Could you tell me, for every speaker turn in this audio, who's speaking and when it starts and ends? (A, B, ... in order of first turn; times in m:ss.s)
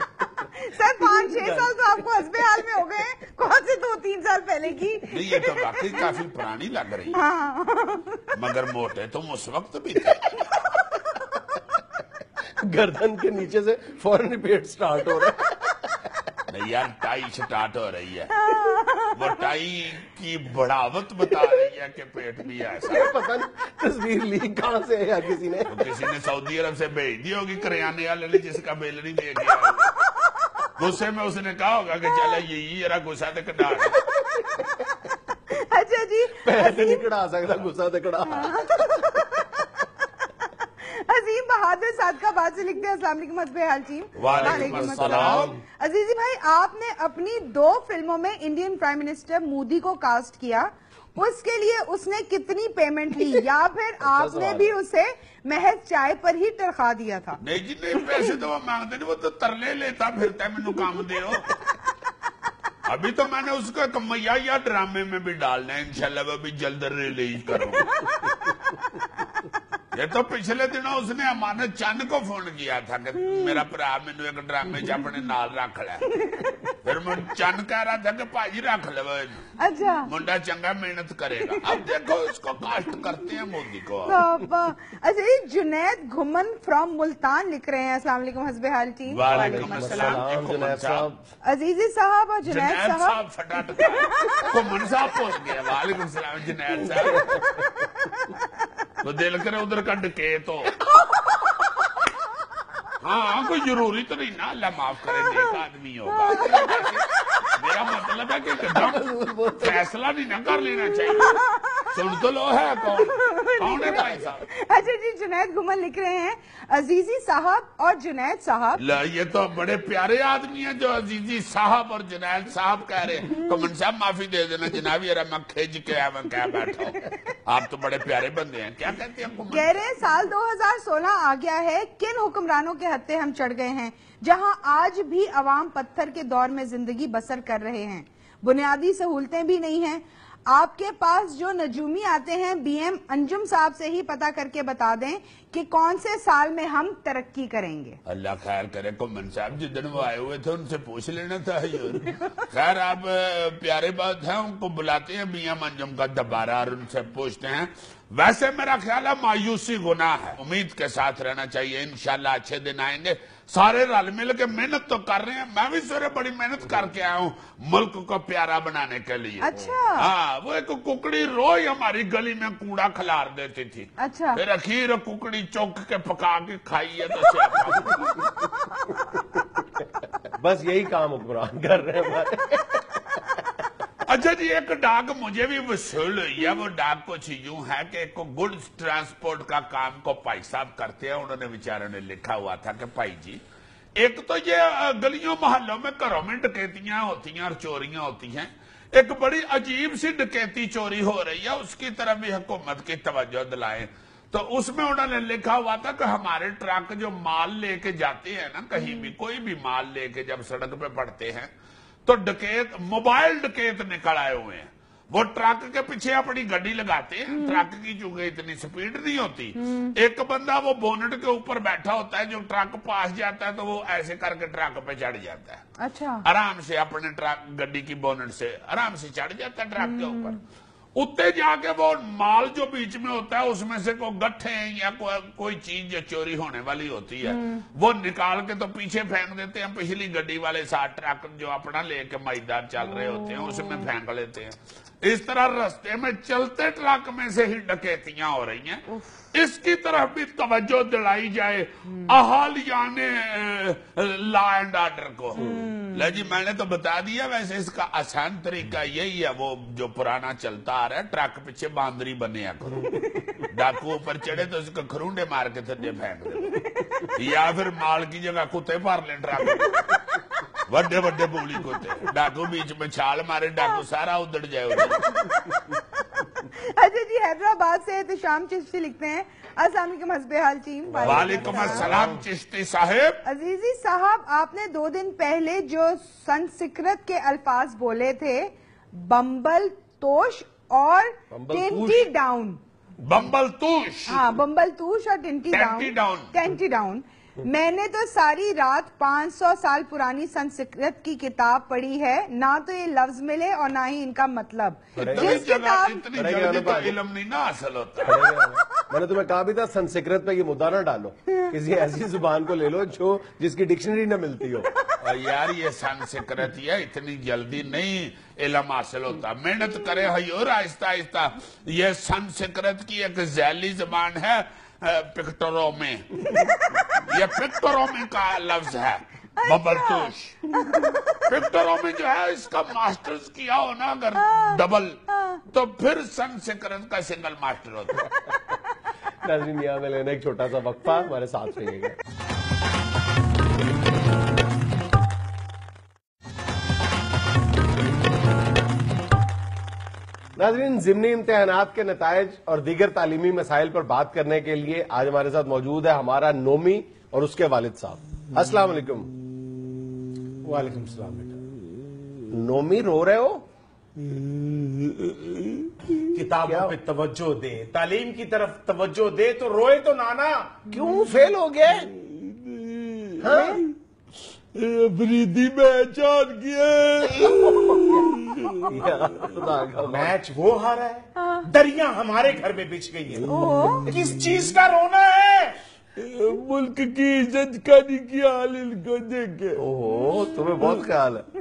0:00.5-0:05.8 A
0:01.0-0:01.7 B
0:05.1-0:07.2 C
0:07.1-0:08.2 A
0:08.3-0:10.4 C
0:12.6-0:16.1 B
0:16.5-0:18.3 C
0:18.4-0:19.1 A
0:19.1-0:23.1 C
0:22.9-0:25.9 B
0:25.7-0:30.0 C
0:30.8-0:34.0 C
0:35.5-0:37.0 A
0:36.3-0:39.3 B
0:38.3-0:39.5 A
0:40.4-0:57.4 A
0:44.2-0:45.5 C
0:44.2-0:45.6 B
0:54.0-0:54.7 B
0:57.4-1:01.6 C
0:58.0-0:58.3 A
1:02.8-1:08.0 C
1:09.9-1:16.2 C
1:16.2-1:16.6 A
1:16.8-1:19.5 C
1:19.6-1:20.1 A
1:20.1-1:24.2 C
1:24.0-1:30.2 A
1:29.1-1:31.1 C
1:29.3-1:31.2 B
1:31.4-1:33.2 A
1:32.4-1:37.4 C
1:33.8-1:34.5 A
1:37.0-1:37.9 B
1:39.0-1:40.8 C
1:43.0-1:49.0 C
1:46.1-1:46.9 A
1:48.7-1:49.8 B
1:49.6-1:54.4 C
1:51.2-1:51.9 A
1:53.0-1:58.8 A
1:58.8-2:09.8 C
2:09.5-2:28.0 A
2:28.0-2:58.2 C
2:49.4-2:50.1 A
2:54.0-2:54.4 A
2:59.8-3:03.5 B
3:04.0-3:13.4 C
3:14.0-3:31.5 C
3:28.8-3:29.1 A
3:32.0-3:45.6 C
3:37.3-3:37.6 A
3:39.6-3:39.9 A
3:45.8-3:46.2 A
3:46.2-3:50.4 C
3:49.8-3:50.4 A
3:51.0-4:30.0 C
3:57.3-3:57.6 A
4:03.0-4:03.8 A
4:08.9-4:09.2 A
4:15.4-4:16.1 A
4:15.4-4:15.6 B
4:26.7-4:27.1 A
4:30.6-4:35.2 C
4:36.5-4:41.9 A
4:40.9-4:42.2 B
4:41.0-4:43.2 C
4:43.2-4:52.6 A
4:51.3-4:52.1 B
4:53.0-4:54.2 C
4:54.1-5:06.0 A
4:55.5-4:56.3 C
5:05.0-5:05.4 B
5:05.0-5:08.3 C
5:06.1-5:07.0 B
5:08.0-5:14.7 B
5:15.0-5:30.4 C
5:26.3-5:26.9 A
5:29.4-5:30.1 A
5:31.2-5:38.0 C
5:34.2-5:34.6 A
5:35.1-5:35.4 A
5:39.2-5:42.0 B
5:50.4-5:59.1 B
6:00.4-6:01.4 D
6:02.3-6:03.4 B
6:04.0-6:05.9 C
6:06.1-6:10.7 D
6:06.4-6:06.8 B
6:10.7-6:11.9 B
6:11.6-6:13.7 C
6:13.2-6:13.6 B
6:14.5-6:19.4 C
6:17.2-6:18.1 B
6:17.2-6:17.6 D
6:18.6-6:20.1 B
6:19.8-6:23.2 D
6:21.2-6:21.5 A
6:23.2-6:24.4 C
6:23.3-6:23.9 A
6:23.9-6:25.6 D
6:26.0-6:29.6 C
6:29.6-6:31.2 B